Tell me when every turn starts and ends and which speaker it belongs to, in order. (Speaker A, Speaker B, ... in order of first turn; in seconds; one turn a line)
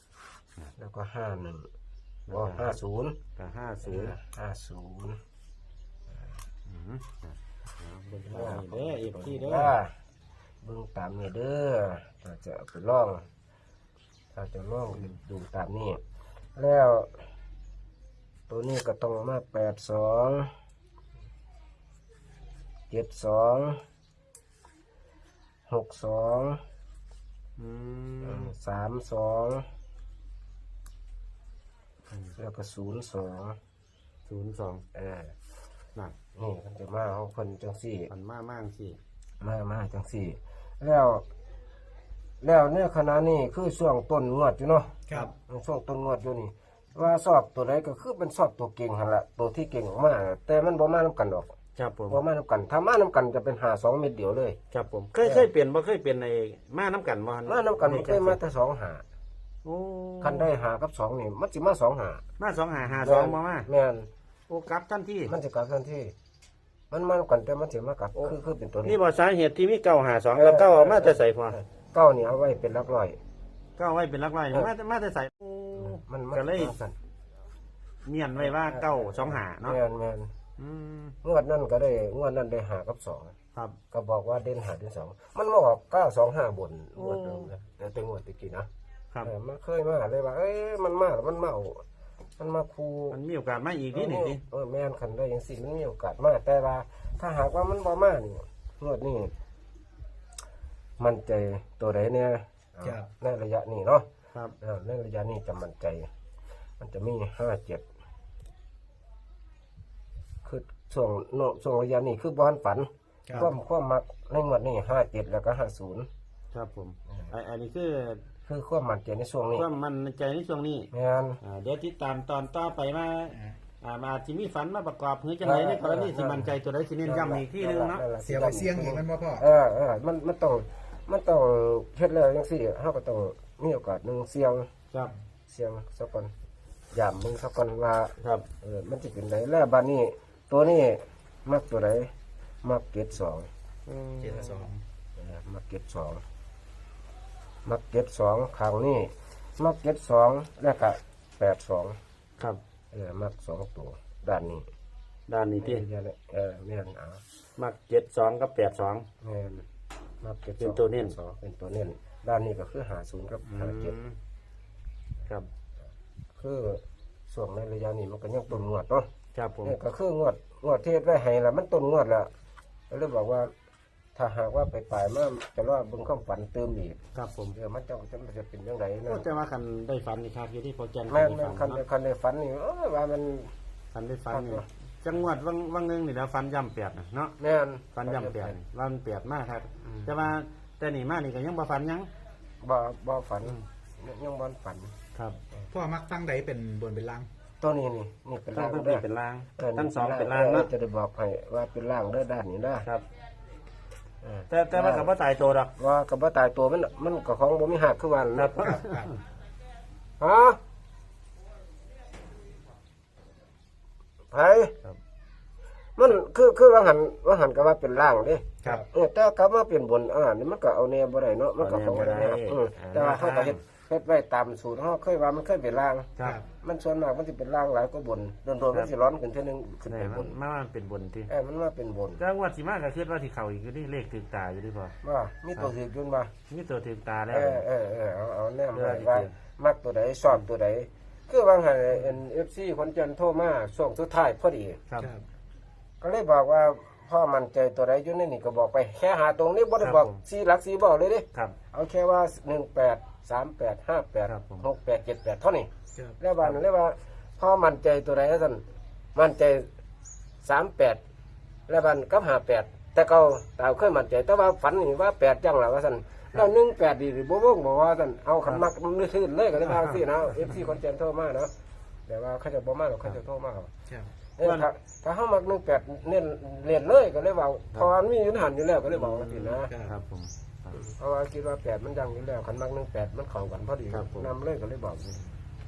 Speaker A: 0.8-1.7
Speaker B: 2.3-2.8
Speaker A: 2.3-3.2
Speaker B: 3.4-4.2
Speaker A: 3.8-5.2
Speaker B: 6.7-9.8
Speaker A: 8.2-9.9
Speaker A: 10.6-13.3
Speaker A: 14.3-16.0
Speaker A: 16.6-17.2
Speaker A: 18.5-20.5
Speaker A: 22.9-23.8
Speaker A: 25.7-26.6
Speaker B: 27.6-28.5
Speaker A: 28.2-29.7
Speaker A: 32.4-33.6
Speaker B: 34.3-34.8
Speaker A: 34.9-35.3
Speaker A: 36.3-38.1
Speaker B: 38.1-39.0
Speaker A: 39.4-41.2
Speaker A: 42.4-51.5
Speaker B: 51.8-52.2
Speaker A: 52.1-54.6
Speaker B: 54.7-58.4
Speaker A: 55.2-55.5
Speaker A: 57.5-59.0
Speaker B: 59.6-60.5
Speaker A: 60.2-62.2
Speaker B: 62.4-63.7
Speaker A: 63.0-64.1
Speaker B: 64.5-65.3
Speaker A: 65.3-66.1
Speaker A: 66.9-69.0
Speaker B: 68.2-71.6
Speaker A: 70.3-73.2
Speaker B: 73.8-76.8
Speaker A: 75.8-77.0
Speaker B: 78.0-79.8
Speaker A: 78.4-80.3
Speaker B: 80.6-81.1
Speaker A: 81.2-83.3
Speaker A: 83.9-88.7
Speaker B: 87.0-87.5
Speaker A: 89.2-91.8
Speaker A: 92.4-93.2
Speaker B: 93.1-94.4
Speaker A: 93.9-99.3
Speaker A: 101.0-104.0
Speaker A: 104.6-106.1
Speaker A: 106.8-107.8
Speaker A: 110.4-116.1
Speaker C: 113.3-113.5
Speaker B: 116.5-118.2
Speaker A: 117.1-117.3
Speaker A: 118.5-119.7
Speaker B: 119.5-120.9
Speaker A: 120.9-121.4
Speaker B: 121.4-128.0
Speaker C: 123.3-123.6
Speaker A: 125.4-134.7
Speaker C: 128.2-129.4
Speaker A: 135.5-136.3
Speaker A: 136.9-143.5
Speaker B: 138.2-138.4
Speaker B: 143.8-144.7
Speaker C: 144.2-144.8
Speaker A: 145.2-146.2
Speaker A: 147.6-152.0
Speaker A: 152.9-154.7
Speaker B: 155.3-155.8
Speaker A: 155.6-157.2
Speaker B: 157.6-159.1
Speaker A: 159.2-159.7
Speaker A: 160.2-164.0
Speaker B: 160.6-161.1
Speaker B: 163.5-164.2
Speaker A: 166.3-169.1
Speaker B: 169.3-169.8
Speaker A: 169.6-172.3
Speaker A: 172.9-173.5
Speaker A: 174.1-177.0
Speaker B: 177.1-177.6
Speaker A: 177.5-179.3
Speaker B: 179.1-181.8
Speaker A: 181.1-183.5
Speaker B: 183.9-187.3
Speaker A: 184.3-184.7
Speaker A: 187.4-188.6
Speaker B: 187.9-192.1
Speaker A: 189.8-190.2
Speaker A: 192.6-194.9
Speaker B: 195.1-195.4
Speaker C: 195.7-197.3
Speaker A: 197.6-199.0
Speaker B: 198.5-200.7
Speaker A: 199.6-202.9
Speaker A: 204.2-205.1
Speaker B: 204.5-205.7
Speaker A: 205.8-208.6
Speaker B: 208.3-209.2
Speaker C: 208.7-209.1
Speaker A: 210.2-210.6
Speaker A: 214.3-214.7
Speaker A: 216.0-226.1
Speaker B: 221.6-223.6
Speaker C: 226.2-226.4
Speaker A: 226.6-230.4
Speaker B: 229.9-231.3
Speaker A: 231.3-232.2
Speaker B: 232.2-234.9
Speaker A: 235.0-236.3
Speaker B: 236.5-237.6
Speaker A: 237.3-244.8
Speaker B: 238.7-239.3
Speaker C: 245.0-245.2
Speaker A: 246.0-258.6
Speaker B: 249.8-250.2
Speaker B: 254.3-254.6
Speaker A: 259.1-259.7
Speaker A: 260.4-261.0
Speaker A: 261.7-271.5
Speaker B: 269.7-270.6
Speaker A: 272.1-273.7
Speaker A: 274.4-279.7
Speaker B: 274.4-274.7
Speaker B: 278.9-280.8
Speaker C: 279.6-279.9
Speaker A: 280.7-285.3
Speaker B: 283.9-284.3